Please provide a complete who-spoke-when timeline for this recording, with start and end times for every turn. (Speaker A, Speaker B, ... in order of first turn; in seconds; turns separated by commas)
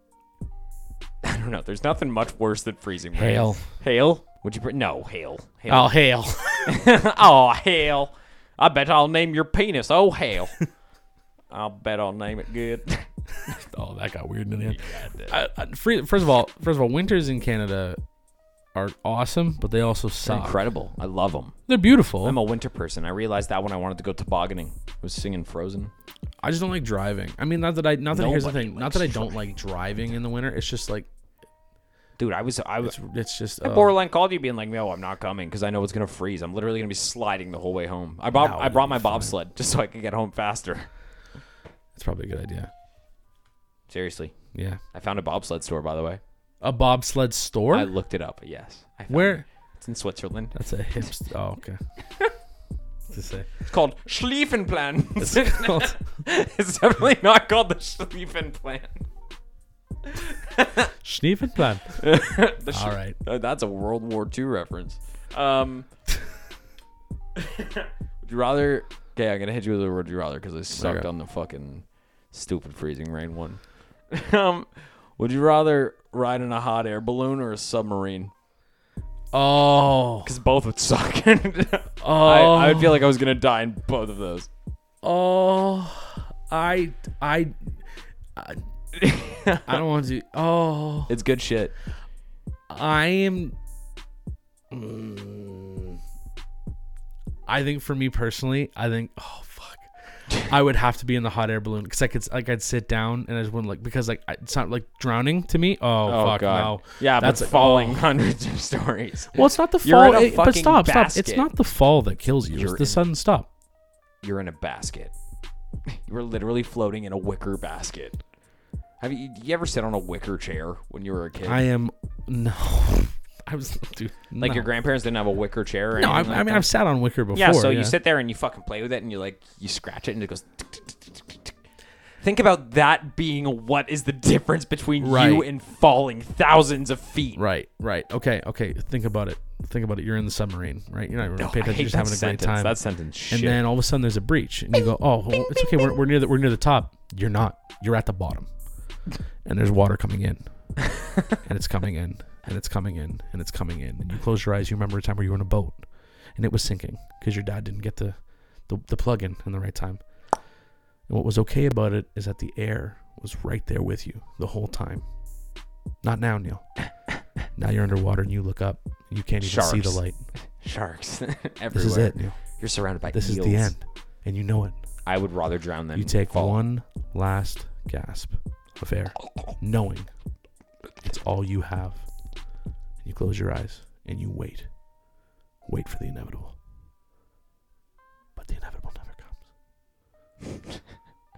Speaker A: 1.2-5.9, Speaker B: 3.1-3.6, Speaker B: 5.7-6.8, Speaker A: 6.7-10.5, Speaker A: 11.5-13.1, Speaker B: 13.5-18.0, Speaker A: 14.6-15.3, Speaker B: 18.7-20.6, Speaker A: 20.2-21.6, Speaker B: 21.7-22.4, Speaker A: 22.2-25.9, Speaker B: 26.4-31.1, Speaker A: 28.1-29.4, Speaker A: 32.2-33.0, Speaker B: 32.8-33.9, Speaker A: 33.6-40.9, Speaker B: 38.3-39.3, Speaker B: 41.9-42.7, Speaker A: 43.9-44.3, Speaker B: 44.5-44.8, Speaker A: 44.9-46.2, Speaker B: 46.6-47.9, Speaker A: 47.7-51.1, Speaker B: 49.1-49.4, Speaker B: 50.5-51.8, Speaker B: 53.1-53.5, Speaker A: 53.7-59.0, Speaker B: 55.2-55.9, Speaker A: 60.0-60.9, Speaker B: 61.0-61.9, Speaker A: 62.0-65.9, Speaker B: 62.7-63.1, Speaker A: 67.3-78.3, Speaker B: 70.8-71.0, Speaker B: 79.3-80.3, Speaker A: 80.2-84.5, Speaker B: 82.0-83.0, Speaker B: 85.0-87.5, Speaker B: 88.3-88.6, Speaker A: 88.9-89.8, Speaker B: 89.7-91.1, Speaker A: 91.1-91.7, Speaker B: 92.7-93.5, Speaker B: 94.7-96.0, Speaker B: 97.5-99.9, Speaker B: 100.4-108.0, Speaker A: 106.1-111.5, Speaker B: 109.3-113.5, Speaker A: 112.5-113.0, Speaker A: 114.2-115.1, Speaker A: 115.9-118.2, Speaker A: 119.0-121.7, Speaker B: 121.4-124.7, Speaker A: 124.4-126.7, Speaker B: 126.0-128.0, Speaker A: 127.3-131.5, Speaker A: 132.2-137.4, Speaker B: 135.0-135.4, Speaker B: 137.3-142.8, Speaker A: 141.4-143.6, Speaker B: 143.3-148.5, Speaker B: 149.4-150.4, Speaker B: 151.4-155.8, Speaker B: 156.3-158.2, Speaker B: 158.7-160.0, Speaker B: 161.1-165.0, Speaker B: 166.0-166.7, Speaker B: 167.6-170.2, Speaker A: 169.4-170.0, Speaker A: 170.6-173.7, Speaker B: 171.7-172.4, Speaker B: 173.1-174.8, Speaker A: 175.0-176.6, Speaker B: 175.9-180.1, Speaker B: 181.0-182.0, Speaker B: 183.0-184.7, Speaker B: 185.7-186.5, Speaker B: 188.4-189.3